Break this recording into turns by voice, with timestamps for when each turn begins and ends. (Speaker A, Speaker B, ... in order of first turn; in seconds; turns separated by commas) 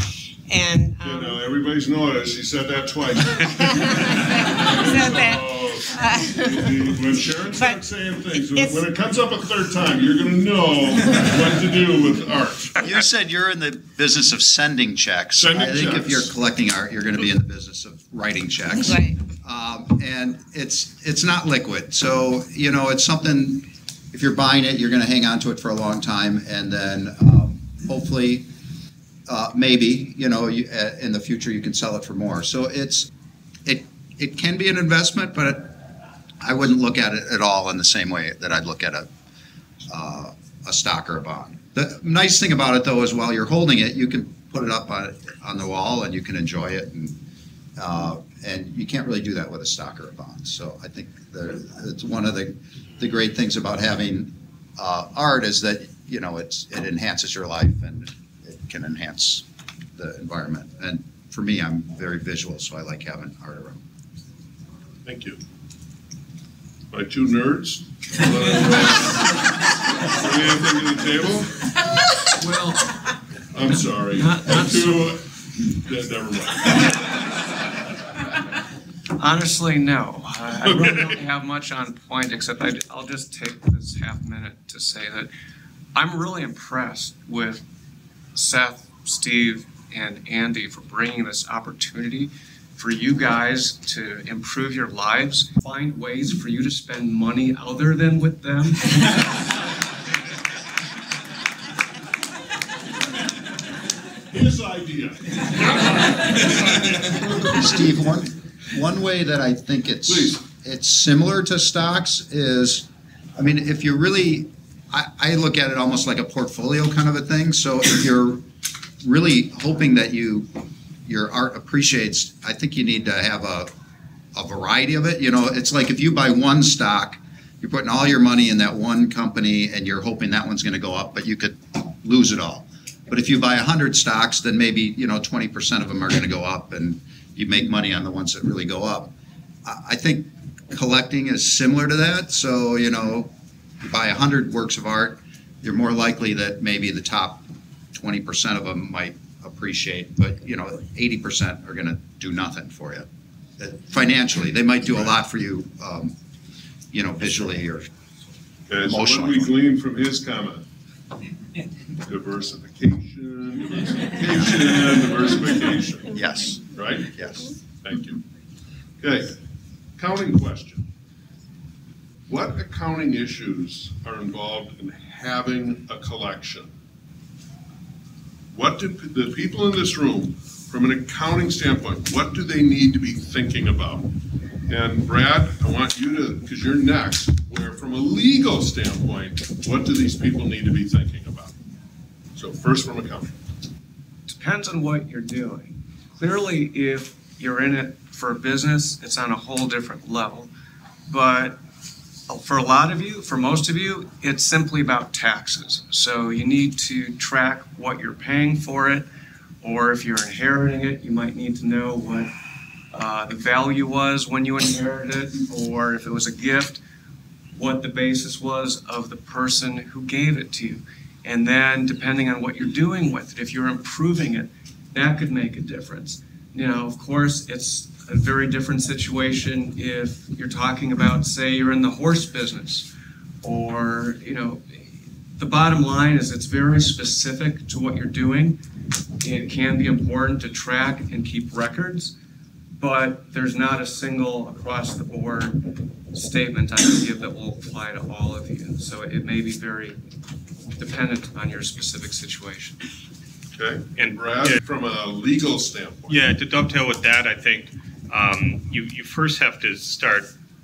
Speaker A: 0.5-1.4, Speaker B: 1.0-12.8, Speaker A: 3.3-7.0, Speaker A: 7.5-7.8, Speaker A: 8.5-8.8, Speaker C: 12.8-28.5, Speaker B: 15.3-16.3, Speaker A: 18.9-19.2, Speaker C: 29.3-33.1, Speaker C: 33.6-35.7, Speaker C: 36.4-39.1, Speaker C: 39.9-47.2, Speaker C: 47.8-59.4, Speaker C: 60.0-63.8, Speaker B: 65.0-65.4, Speaker B: 66.9-69.3, Speaker B: 70.1-71.5, Speaker D: 72.3-73.0, Speaker B: 73.5-76.9, Speaker D: 74.2-75.1, Speaker D: 79.2-85.3, Speaker B: 80.6-81.2, Speaker D: 85.9-87.6, Speaker D: 88.3-99.2, Speaker B: 104.3-107.7, Speaker C: 107.4-118.4, Speaker B: 110.1-110.4, Speaker C: 119.0-123.7, Speaker C: 124.3-139.1, Speaker C: 139.6-143.3, Speaker C: 143.8-153.1, Speaker C: 153.6-156.1, Speaker C: 156.9-157.9, Speaker B: 158.7-160.6, Speaker C: 158.8-159.5, Speaker B: 162.1-167.1, Speaker C: 166.1-167.5, Speaker B: 167.8-168.2, Speaker B: 169.0-169.3, Speaker B: 170.0-170.8, Speaker B: 172.3-176.7, Speaker B: 178.5-184.1, Speaker B: 184.7-191.6, Speaker B: 192.3-193.4, Speaker D: 194.3-200.5, Speaker D: 201.1-201.6, Speaker D: 202.3-209.1, Speaker D: 209.6-212.3, Speaker D: 212.9-216.8, Speaker D: 217.5-232.9, Speaker D: 233.4-238.6, Speaker D: 239.2-242.1, Speaker D: 242.8-245.6, Speaker D: 246.1-250.0, Speaker D: 250.8-252.8, Speaker B: 253.6-256.2, Speaker E: 254.0-254.6, Speaker E: 256.1-260.3